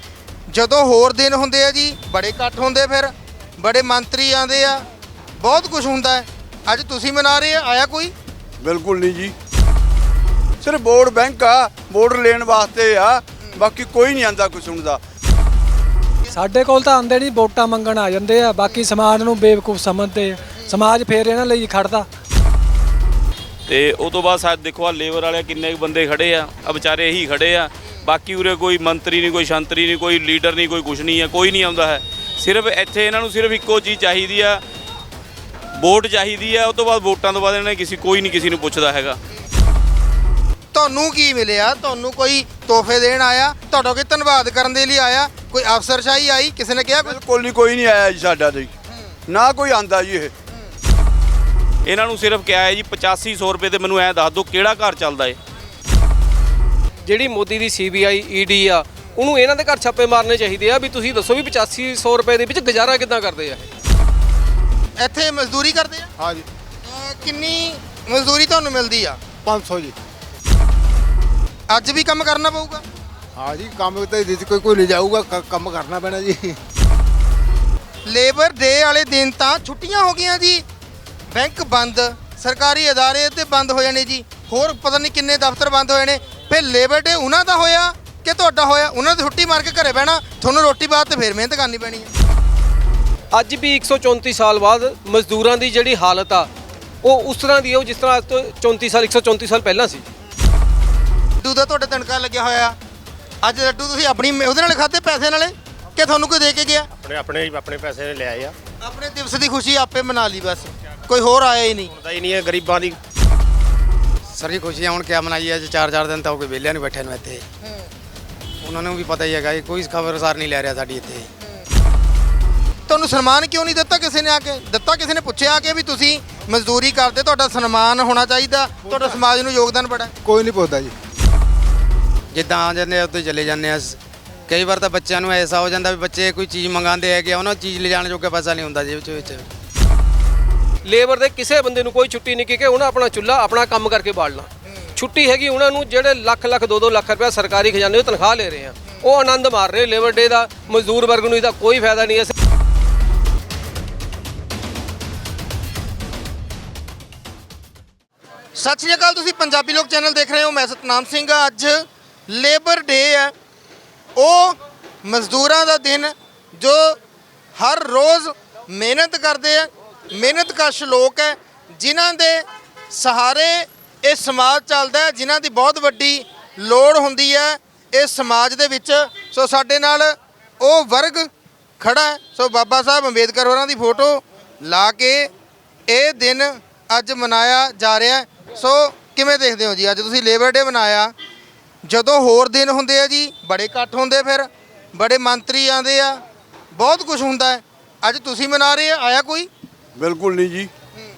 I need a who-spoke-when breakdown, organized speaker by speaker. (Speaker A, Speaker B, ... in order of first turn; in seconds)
Speaker A: 0.5-4.8, 5.4-8.1, 40.7-47.2, 65.0-66.1, 66.9-69.2, 71.7-72.8, 78.1-80.6, 81.3-92.1, 101.4-102.8, 103.4-106.9, 108.8-111.9, 122.9-130.1, 158.6-163.3, 164.2-167.0, 167.6-181.3, 181.8-185.3, 185.9-191.1, 191.8-196.2, 196.7-199.5
Speaker B: 8.6-9.3, 10.6-15.0, 46.9-48.7, 49.3-50.3, 200.0-200.7
Speaker C: 16.3-22.1
Speaker D: 23.7-34.6, 35.8-39.2, 51.9-55.4
Speaker E: 57.0-63.7, 93.3-96.5, 97.0-100.1, 140.8-152.3
Speaker F: 66.2-66.5, 69.5-70.0, 73.4-76.6, 130.2-130.9
Speaker G: 107.0-108.5, 111.9-113.0
Speaker H: 114.3-117.5, 118.6-121.3, 132.3-139.5